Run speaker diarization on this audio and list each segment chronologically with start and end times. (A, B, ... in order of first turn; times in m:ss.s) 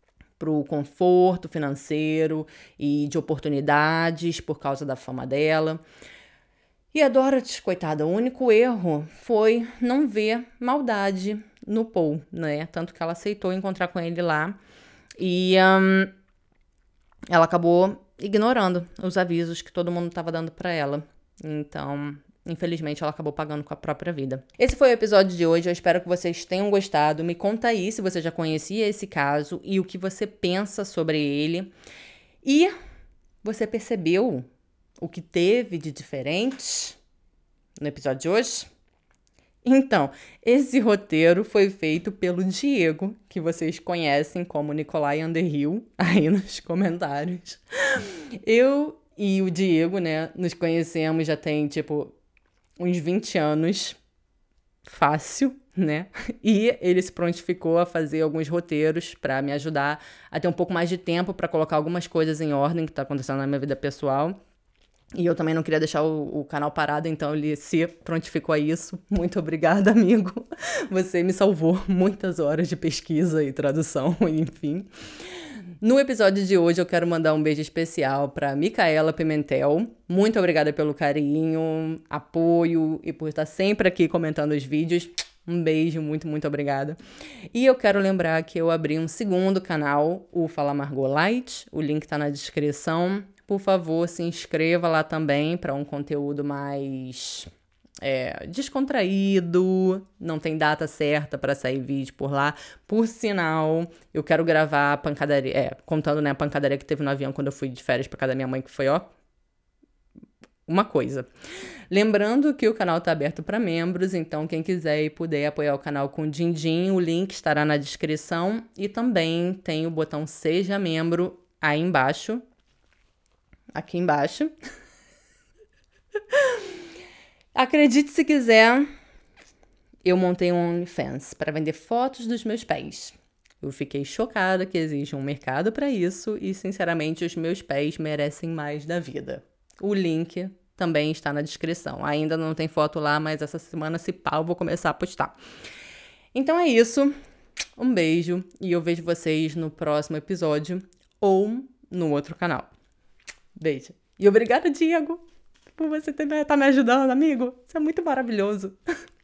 0:00.4-0:05.8 A
0:06.9-0:14.6 A
0:15.2-0:16.1 A
0:17.3-0:31.7 A
0:32.4-0:32.7 A
0:33.4-0:34.4 A
0:35.0-0:37.0 A
0:37.8-0:38.7 A
0:39.6-0:52.1 A
0:52.8-0:54.0 A
0:54.8-1:04.4 A
1:05.1-1:14.9 A
1:15.8-1:27.0 A
1:27.5-1:37.5 A
1:38.0-1:49.1 A
1:50.7-1:51.3 A
1:51.9-2:02.4 A
2:03.7-2:04.5 A
2:06.3-2:06.7 A
2:07.5-2:08.9 A
2:10.0-2:25.3 A
2:26.3-2:27.1 A
2:27.8-2:32.7 A
2:33.6-2:35.2 A
2:35.8-2:38.8 A